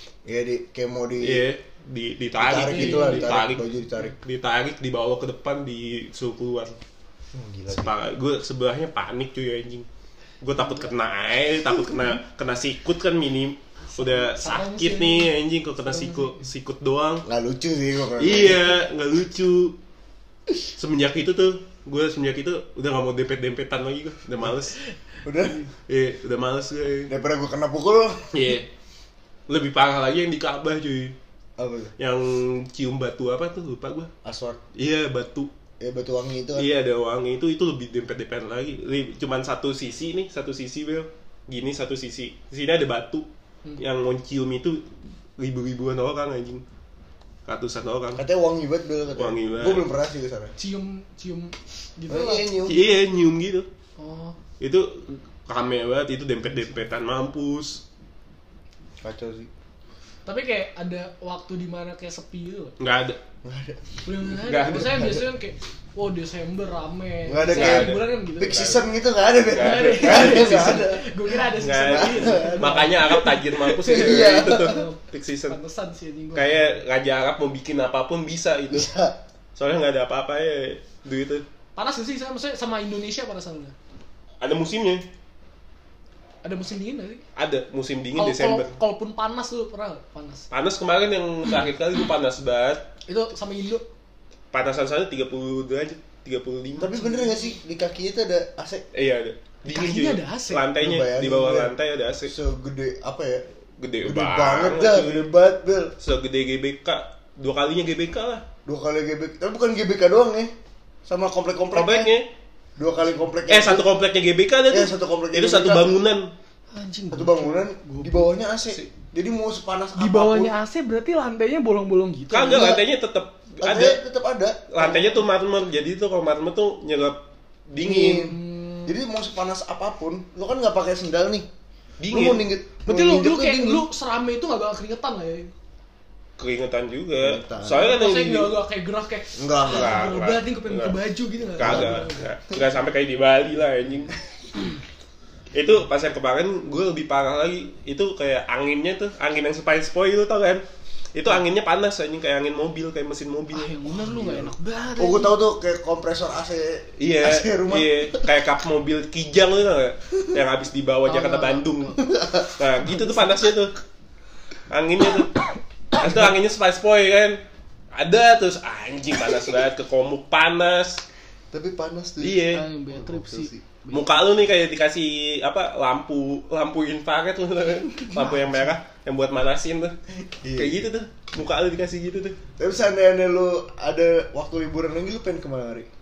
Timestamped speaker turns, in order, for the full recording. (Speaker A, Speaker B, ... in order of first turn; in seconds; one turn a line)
Speaker A: 0.2-1.5
Speaker B: 1.2-6.8
Speaker A: 2.4-4.2
Speaker C: 2.6-3.3
Speaker A: 7.3-7.9
Speaker B: 7.7-9.8
Speaker B: 10.4-17.2
Speaker C: 13.9-15.3
Speaker C: 15.8-16.5
Speaker A: 17.2-18.8
Speaker B: 18.2-19.8
Speaker B: 20.8-24.7
Speaker A: 25.2-25.6
Speaker C: 25.4-25.7
Speaker B: 25.9-27.1
Speaker A: 27.1-28.3
Speaker B: 28.3-28.7
Speaker B: 29.5-31.1
Speaker A: 31.6-31.9
Speaker B: 32.0-34.1
Speaker A: 34.2-34.6
Speaker B: 34.7-35.5
Speaker A: 35.8-36.7
Speaker B: 36.5-44.9
Speaker B: 45.4-46.6
Speaker B: 47.5-48.2
Speaker A: 48.2-50.5
Speaker B: 49.1-49.9
Speaker C: 50.6-52.5
Speaker A: 52.1-52.8
Speaker B: 52.6-53.7
Speaker C: 54.0-54.4
Speaker B: 54.6-57.8
Speaker A: 59.0-59.5
Speaker C: 60.2-62.7
Speaker B: 62.8-63.2
Speaker A: 63.4-65.2
Speaker C: 64.0-68.7
Speaker B: 64.5-65.2
Speaker A: 67.2-71.1
Speaker B: 67.5-68.8
Speaker B: 69.5-70.8
Speaker C: 69.5-76.7
Speaker B: 71.6-75.6
Speaker A: 71.6-74.8
Speaker B: 76.3-78.9
Speaker A: 78.7-79.2
Speaker B: 79.5-81.4
Speaker C: 81.8-83.7
Speaker B: 84.4-85.0
Speaker C: 86.4-87.2
Speaker B: 87.3-88.7
Speaker C: 88.2-90.5
Speaker B: 90.5-92.8
Speaker C: 93.1-93.8
Speaker B: 94.5-96.9
Speaker C: 96.8-97.5
Speaker A: 96.8-98.8
Speaker B: 98.9-102.3
Speaker C: 99.6-100.6
Speaker A: 100.8-101.7
Speaker A: 102.2-103.4
Speaker B: 103.8-105.3
Speaker A: 104.0-105.9
Speaker B: 106.0-108.4
Speaker A: 108.7-110.5
Speaker A: 111.0-112.1
Speaker B: 111.7-112.3
Speaker A: 112.8-113.9
Speaker B: 113.5-116.3
Speaker A: 114.7-115.9
Speaker C: 116.7-118.8
Speaker A: 117.1-120.5
Speaker C: 120.0-122.8
Speaker B: 122.3-124.0
Speaker A: 122.5-122.8
Speaker A: 123.6-125.2
Speaker B: 124.7-128.3
Speaker A: 127.8-131.5
Speaker C: 127.8-128.9
Speaker B: 132.0-132.4
Speaker A: 132.0-133.8
Speaker C: 132.8-135.5
Speaker B: 136.4-138.6
Speaker A: 137.2-137.9
Speaker C: 137.7-142.2
Speaker A: 139.3-140.1
Speaker B: 139.6-141.0
Speaker B: 141.6-144.2
Speaker A: 141.6-142.1
Speaker B: 145.5-153.7
Speaker C: 153.5-155.4
Speaker A: 154.0-158.2
Speaker B: 157.0-163.7
Speaker C: 161.0-161.8
Speaker A: 162.0-162.5
Speaker C: 162.9-163.2
Speaker B: 164.7-165.3
Speaker B: 166.0-167.4
Speaker B: 167.9-171.0
Speaker A: 171.5-173.6
Speaker B: 172.2-172.6
Speaker C: 172.5-174.2
Speaker B: 173.9-179.9
Speaker A: 178.1-178.6
Speaker A: 180.3-180.8
Speaker B: 180.6-182.3
Speaker A: 182.6-185.9